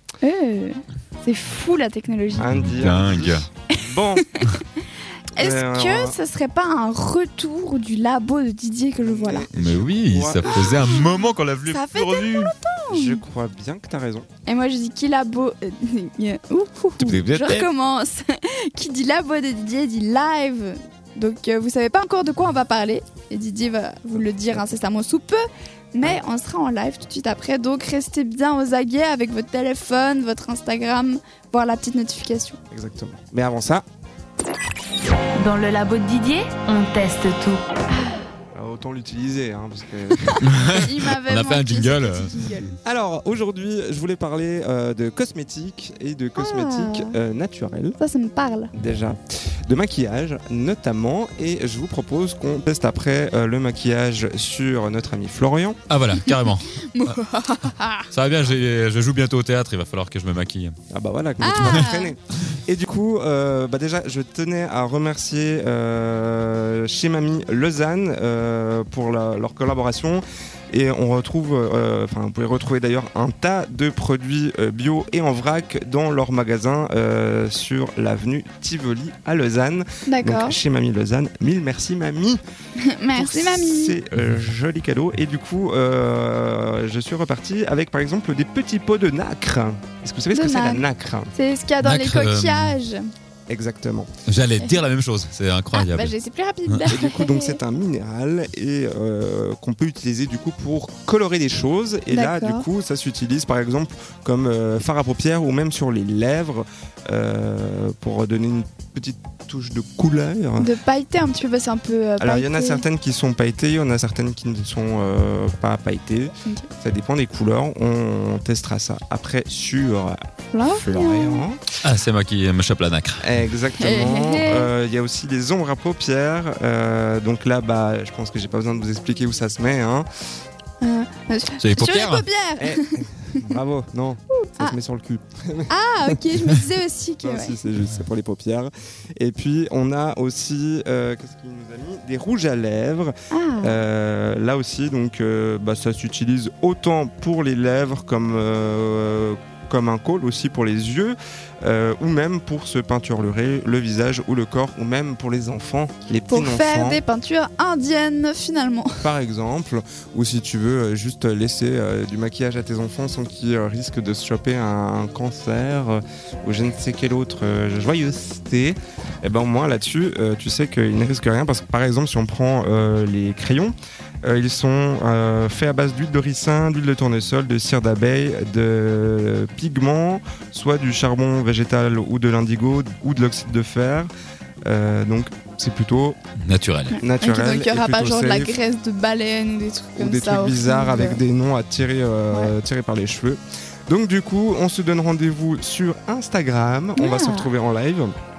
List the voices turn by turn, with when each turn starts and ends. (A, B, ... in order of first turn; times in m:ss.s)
0:00.2-0:02.5 A
0:02.4-0:04.3 B
0:02.5-0:03.4 C
0:03.8-0:04.8 A
0:05.4-0:06.2 B
0:05.4-0:09.5 A
0:09.0-0:11.0 B
0:09.5-0:12.5 C
0:10.5-0:13.2 A
0:12.9-0:14.3 B
0:14.5-0:25.4 A
0:17.0-0:17.7 C
0:25.9-0:32.6 A
0:32.7-0:33.8 B
0:35.4-0:37.6 D
0:37.9-0:38.2 A
0:38.5-0:40.4 B
0:40.4-0:42.3 C
0:40.6-0:42.8 A
0:42.8-0:48.0 B
0:46.4-0:47.2 A
0:48.0-0:48.7 A
0:48.7-0:55.8 B
0:55.9-0:57.2 C
0:56.2-0:58.1 A
0:58.1-1:00.8 C
1:00.9-1:22.4 B
1:01.4-1:02.1 A
1:01.6-1:01.8 C
1:20.1-1:20.6 A
1:22.8-1:24.0 A
1:23.2-1:31.3 B
1:30.3-1:33.0 A
1:31.8-1:32.8 C
1:33.5-1:34.1 B
1:34.3-1:36.1 C
1:35.7-1:37.6 A
1:36.9-1:50.7 B
1:42.1-1:42.7 A
1:50.6-1:52.8 A
1:52.2-2:01.6 B
2:00.5-2:01.4 A
2:01.8-2:03.3 C
2:03.2-2:10.1 B
2:03.8-2:04.7 A
2:10.8-2:13.6 A
2:11.6-2:12.3 C
2:12.6-2:16.2 B
2:14.3-2:14.8 A
2:15.7-2:17.6 A
2:17.2-2:37.0 B
2:23.3-2:23.8 A
2:36.3-2:38.9 A
2:39.0-3:04.1 B
3:04.7-3:06.2 B
3:06.4-3:07.0 C
3:06.9-3:11.2 A
3:07.0-3:08.6 B
3:10.0-3:18.1 B
3:17.0-3:17.5 A